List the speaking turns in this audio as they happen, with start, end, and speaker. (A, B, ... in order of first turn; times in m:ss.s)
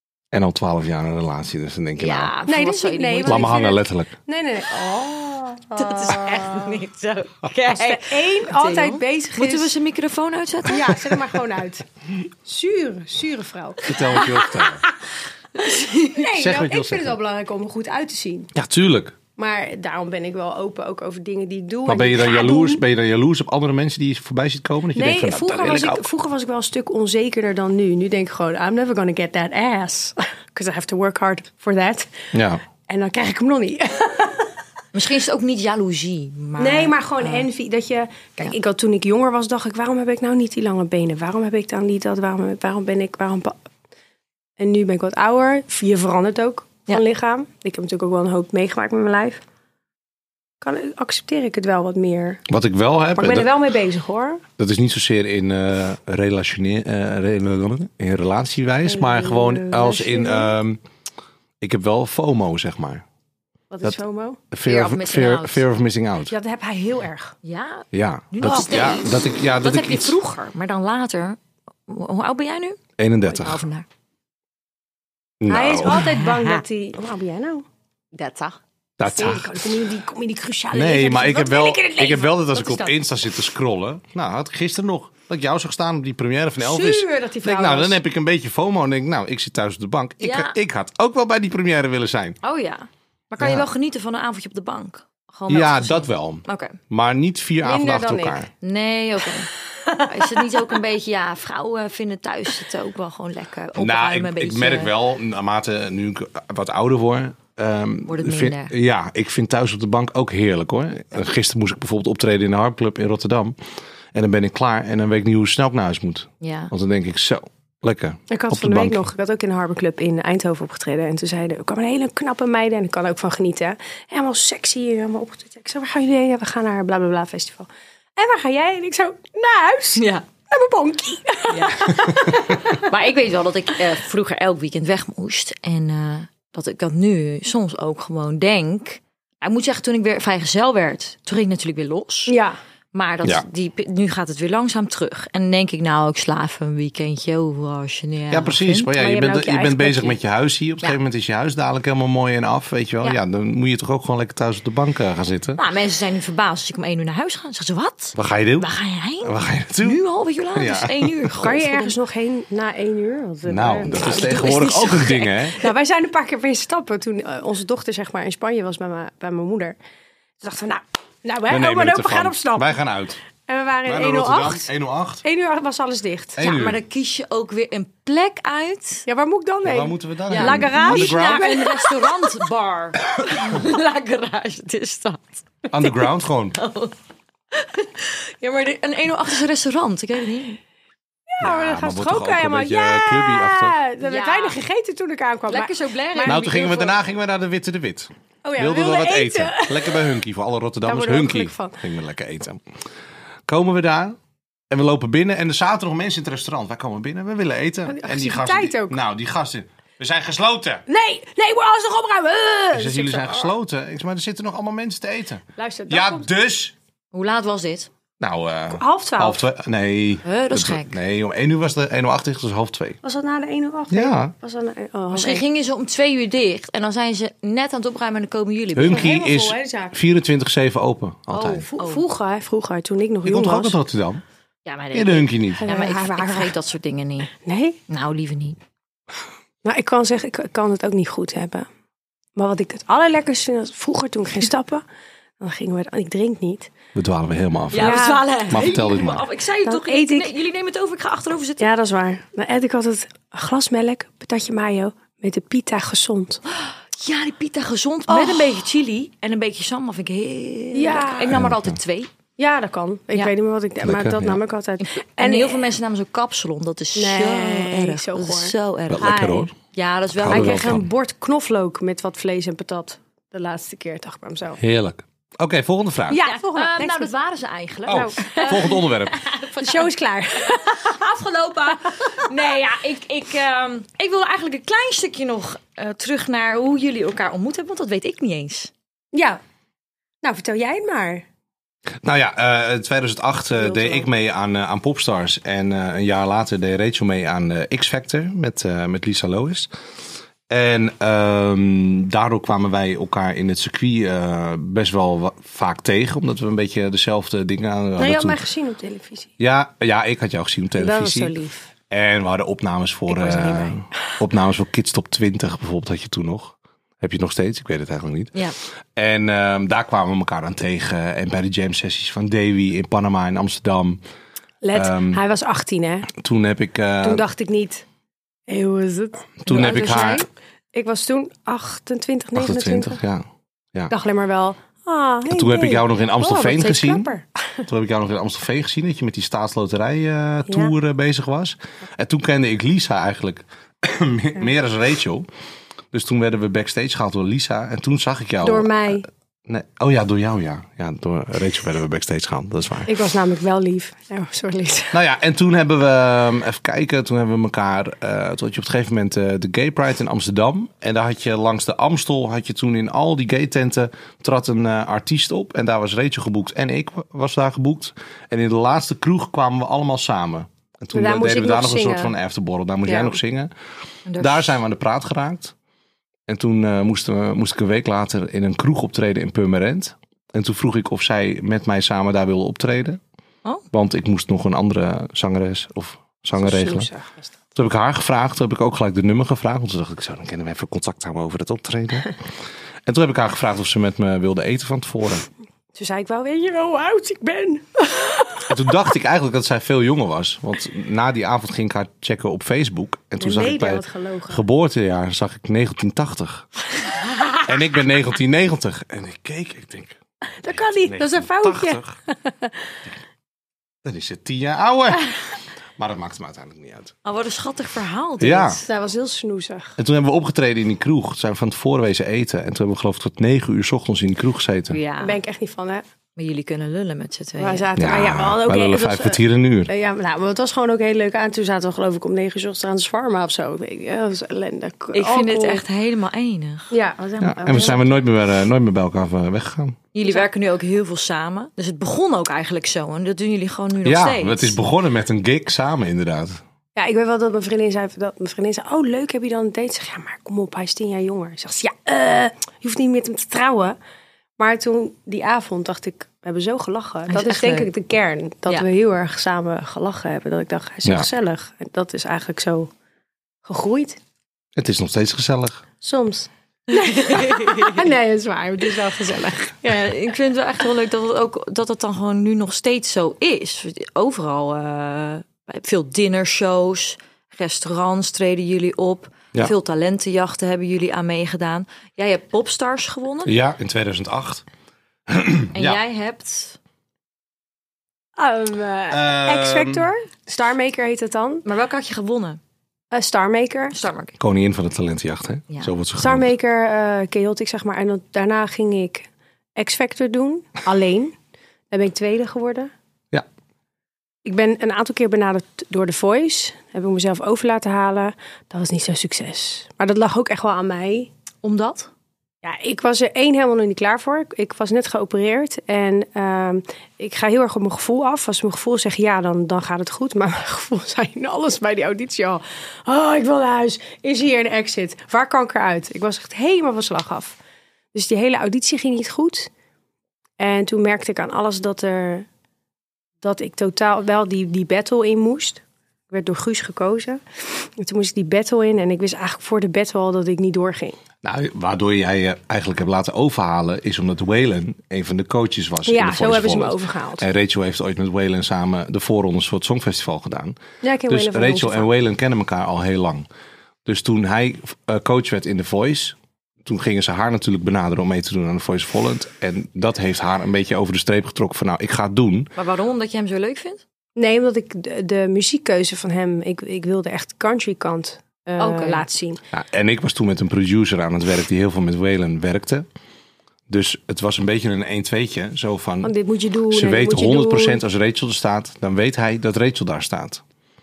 0:00.3-0:02.3 A
0:02.0-0:03.6 B
0:02.5-0:06.8 C
0:03.2-0:04.1 A
0:05.8-0:11.0 B
0:07.7-0:09.7 C
0:10.7-0:11.9 C
0:12.4-0:14.4 C
0:13.9-0:14.8 A
0:14.1-0:14.7 B
0:15.6-0:16.2 B
0:16.0-0:18.5 C
0:16.4-0:17.2 A
0:18.5-0:19.2 A
0:19.4-0:22.8 C
0:21.9-0:26.0 A
0:25.0-0:32.3 C
0:32.3-0:32.6 A
0:32.9-0:34.5 C
0:34.9-0:37.5 B
0:36.6-0:43.6 C
0:44.6-0:49.4 C
0:50.6-0:52.4 C
0:52.5-0:53.5 A
0:53.2-0:54.4 C
0:54.6-1:00.8 A
0:58.8-1:00.6 C
1:01.6-1:03.0 A
1:03.7-1:04.4 C
1:04.5-1:06.4 A
1:04.6-1:05.6 B
1:06.3-1:07.4 C
1:07.4-1:13.9 B
1:07.9-1:10.2 A
1:08.4-1:08.9 C
1:13.0-1:13.6 A
1:15.4-1:16.1 A
1:15.5-1:17.6 C
1:15.9-1:16.6 B
1:18.1-1:18.6 B
1:19.0-1:19.6 A
1:19.1-1:22.8 C
1:20.7-1:32.4 A
1:22.6-1:22.9 B
1:26.6-1:28.0 C
1:30.2-1:30.6 B
1:32.4-1:36.8 B
1:33.4-1:33.7 A
1:35.5-1:38.5 A
1:37.6-1:38.4 C
1:38.6-1:44.9 B
1:43.8-1:53.6 A
1:48.1-1:48.7 B
1:54.1-1:59.0 A
1:56.4-1:56.7 B
1:58.3-2:12.8 C
2:10.0-2:10.2 B
2:11.5-2:22.4 B
2:22.3-2:22.6 C
2:22.9-2:28.9 B
2:28.3-2:35.6 A
2:28.9-2:30.2 C
2:35.6-2:42.0 B
2:38.2-2:38.7 A
2:39.2-2:40.0 A
2:40.5-2:41.3 A
2:41.4-2:44.6 C
2:43.5-2:45.6 A
2:43.9-2:45.6 B
2:45.6-2:49.8 C
2:50.4-2:52.8 C
2:51.5-2:53.2 A
2:53.5-2:54.7 C
2:53.9-2:55.2 A
2:55.2-2:56.4 C
2:56.4-2:56.8 A
2:56.4-2:59.0 B
2:59.1-3:02.3 C
2:59.6-3:01.5 A
3:00.3-3:06.0 B
3:05.7-3:06.6 A
3:06.6-3:07.0 B
3:07.5-3:10.6 B
3:11.3-3:16.7 C
3:11.4-3:13.8 A
3:14.0-3:14.6 B
3:15.5-3:17.0 B
3:16.3-3:22.6 A
3:18.4-3:20.2 C
3:20.8-3:21.8 C
3:23.5-3:24.2 A
3:24.7-3:30.8 A
3:27.9-3:29.0 C
3:30.9-3:33.5 C
3:32.7-3:36.7 A
3:35.6-3:36.3 C
3:37.1-3:37.9 B
3:38.2-3:43.0 A
3:38.8-3:39.4 C
3:40.2-3:41.0 B
3:43.0-3:45.4 C
3:43.9-3:44.3 A
3:45.1-3:49.1 B
3:48.8-3:51.7 A
3:48.8-3:50.0 C
3:51.3-3:52.0 B
3:51.4-3:53.8 C
3:53.2-3:54.2 A
3:54.6-3:57.3 B
3:54.9-3:55.6 A
3:55.6-3:56.6 C
3:57.3-3:57.8 C
3:57.9-3:58.6 B
3:59.6-4:01.7 C
4:02.4-4:04.8 C
4:05.4-4:06.7 C
4:07.0-4:09.2 A
4:07.7-4:11.7 B
4:07.8-4:08.3 C
4:09.6-4:10.3 C
4:11.6-4:16.4 C
4:16.5-4:22.1 B
4:18.1-4:18.6 C
4:20.7-4:21.4 C
4:21.3-4:21.8 A
4:22.4-4:25.6 C
4:23.8-4:24.4 A
4:24.8-4:30.8 B
4:27.0-4:29.5 C
4:28.9-4:29.5 A
4:30.2-4:30.8 A
4:30.3-4:34.6 C
4:34.6-4:36.2 A
4:36.1-4:37.1 C
4:36.2-4:39.9 B
4:37.9-4:38.8 C
4:37.9-4:39.2 A
4:39.6-4:41.0 C
4:40.6-4:48.7 B
4:49.1-4:49.4 C
4:50.2-4:51.2 C
4:52.0-4:59.7 A
4:53.6-4:54.1 C
5:00.5-5:08.4 A
5:08.0-5:09.3 C
5:09.4-5:11.3 A
5:10.8-5:11.7 C
5:11.9-5:18.3 A
5:13.1-5:13.7 B
5:13.3-5:13.6 C
5:19.0-5:24.0 A
5:24.6-5:26.1 C
5:24.7-5:25.2 A
5:26.1-5:27.3 A
5:27.0-5:27.8 C
5:28.5-5:33.0 C
5:29.4-5:30.3 A
5:32.4-5:33.9 A
5:33.9-5:37.6 C
5:35.3-5:37.1 A
5:37.7-5:45.3 A
5:40.5-5:40.7 C
5:45.9-5:49.0 A
5:48.4-5:49.1 C
5:49.5-5:52.9 A
5:52.9-5:55.0 C
5:54.9-6:13.5 A
6:10.9-6:12.1 C
6:12.9-6:13.2 C
6:14.1-6:14.6 B
6:14.2-6:15.5 A
6:16.3-6:23.0 A
6:23.7-6:26.9 A
6:26.4-6:27.3 C
6:27.6-6:32.1 A
6:32.9-6:35.3 A
6:35.8-6:38.7 C
6:38.5-6:46.5 A
6:43.2-6:44.4 C
6:47.4-6:50.0 A
6:50.4-6:52.5 C
6:50.6-6:51.9 A
6:53.8-6:55.1 A
6:55.8-6:56.9 A
6:57.0-6:58.6 B
6:58.2-6:58.6 A
6:58.6-6:59.8 C
6:59.8-7:04.8 A
7:04.7-7:05.2 B
7:05.0-7:05.8 C
7:06.2-7:07.7 B
7:07.4-7:15.6 C
7:07.8-7:09.7 A
7:14.9-7:16.7 B
7:16.7-7:17.8 C
7:17.2-7:19.8 A
7:19.9-7:24.6 B
7:23.8-7:26.4 A
7:26.8-7:33.8 C
7:34.4-7:42.7 C
7:37.1-7:37.7 B
7:43.4-7:44.0 C
7:44.6-7:45.6 A
7:45.8-7:49.8 C
7:46.7-7:47.8 B
7:49.6-8:03.3 B
8:03.3-8:04.4 A
8:05.1-8:05.8 A
8:05.5-8:06.6 B
8:08.2-8:11.4 C
8:08.9-8:09.9 A
8:11.4-8:12.4 B
8:12.9-8:13.8 C
8:13.7-8:14.2 B
8:14.2-8:16.3 A
8:16.0-8:21.2 C
8:21.7-8:22.7 C
8:24.2-8:31.1 C
8:31.4-8:31.9 B
8:32.4-8:47.4 C
8:47.9-8:49.5 C
8:50.4-8:52.3 C
8:53.2-9:01.0 C
9:01.2-9:10.6 A
9:05.9-9:07.3 C
9:10.8-9:11.9 C
9:11.1-9:13.3 A
9:13.9-9:22.5 A
9:22.6-9:23.8 B
9:24.2-9:29.4 C
9:28.6-9:29.0 B
9:29.5-9:32.8 A
9:33.7-9:36.1 A
9:36.0-9:37.8 C
9:36.7-9:40.4 A